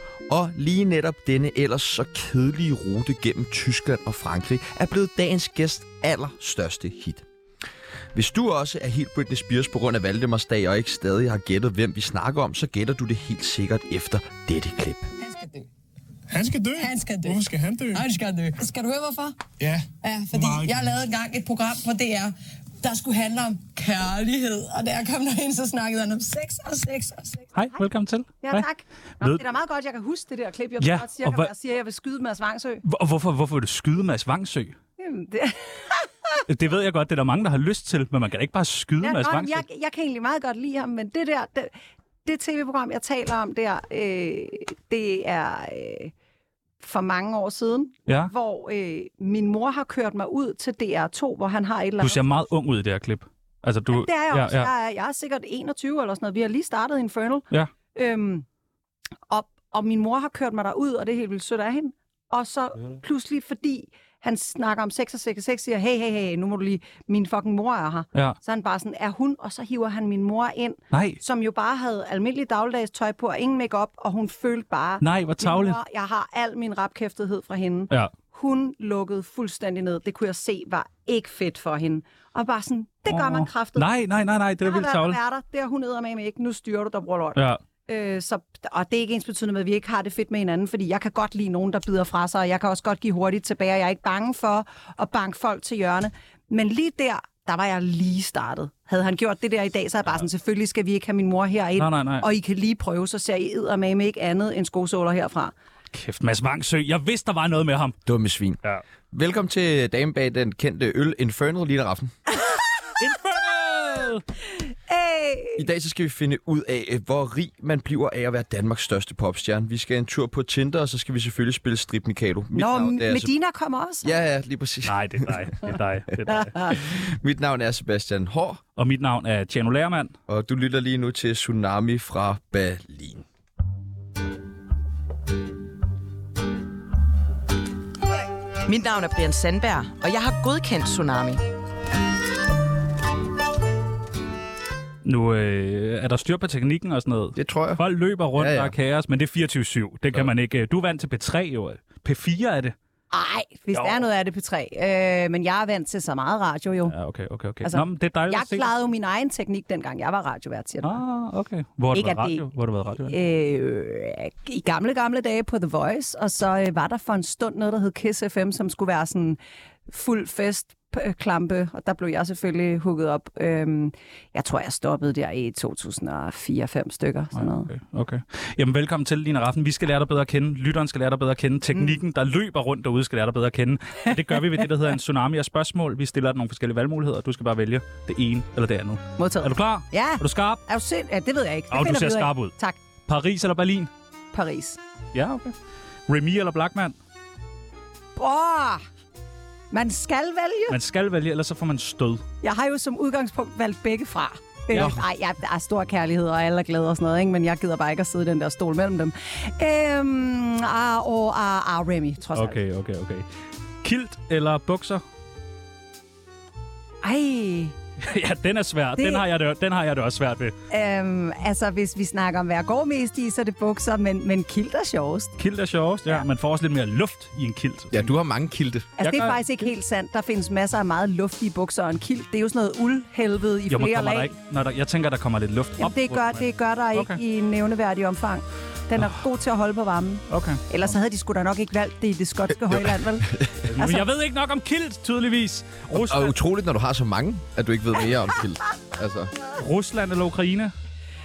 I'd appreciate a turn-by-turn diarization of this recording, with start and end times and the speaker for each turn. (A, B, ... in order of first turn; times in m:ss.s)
0:00.3-0:07.2 A
0:08.1-0:15.1 A
0:15.2-0:15.7 B
0:16.3-0:18.1 C
0:16.8-0:17.4 B
0:17.9-0:19.4 B
0:19.6-0:20.7 C
0:20.0-0:27.4 B
0:27.5-0:28.6 D
0:28.4-0:32.8 E
0:30.8-0:31.5 D
0:32.8-0:34.8 D
0:35.0-0:36.4 E
0:36.5-0:39.6 D
0:39.0-0:46.1 E
0:46.8-0:52.2 E
0:48.1-0:48.3 D
0:52.0-0:54.7 D
0:53.9-0:58.4 E
0:59.3-1:23.8 E
1:10.9-1:11.2 D
1:15.0-1:15.8 D
1:23.1-1:25.2 D
1:24.6-1:45.5 E
1:41.8-1:42.3 D
1:45.9-1:48.0 D
1:48.0-1:48.6 A
1:49.1-1:52.1 A
1:53.0-1:54.2 D
1:54.9-1:55.6 E
1:55.6-2:03.3 A
2:02.5-2:04.1 E
2:04.0-2:05.7 A
2:04.9-2:06.6 D
2:06.6-2:08.6 A
2:08.8-2:10.1 D
2:10.3-2:13.2 A
2:18.6-2:21.4 F
2:25.0-2:32.7 D
2:27.4-2:27.8 A
2:28.4-2:28.7 A
2:33.1-2:36.9 E
2:33.7-2:34.0 D
2:36.9-2:38.7 D
2:37.6-2:41.0 E
2:40.8-2:43.1 D
2:41.9-2:42.5 E
2:43.0-2:57.7 E
2:57.3-3:10.6 D
3:01.7-3:02.0 E
3:09.2-3:12.8 E
3:11.7-3:12.5 D
3:13.0-3:13.9 D
3:14.3-3:14.8 E
3:15.1-3:15.5 D
3:16.1-3:17.0 D
3:18.2-3:18.8 E
3:19.7-3:20.8 E
3:20.7-3:22.2 D
3:22.4-3:32.6 E
3:24.7-3:25.0 A
3:32.3-3:33.2 D
3:33.8-3:35.0 D
3:37.0-3:37.8 E
3:38.0-3:40.5 D
3:39.0-3:39.2 E
3:40.7-3:45.3 E
3:45.4-3:48.1 D
3:47.9-3:48.9 A
3:49.0-3:54.3 E
3:49.0-3:49.5 D
3:53.7-3:57.2 D
3:55.8-4:04.1 E
4:00.3-4:00.6 D
4:02.7-4:03.7 A
4:03.6-4:06.3 D
4:05.9-4:09.3 A
4:09.5-4:10.7 D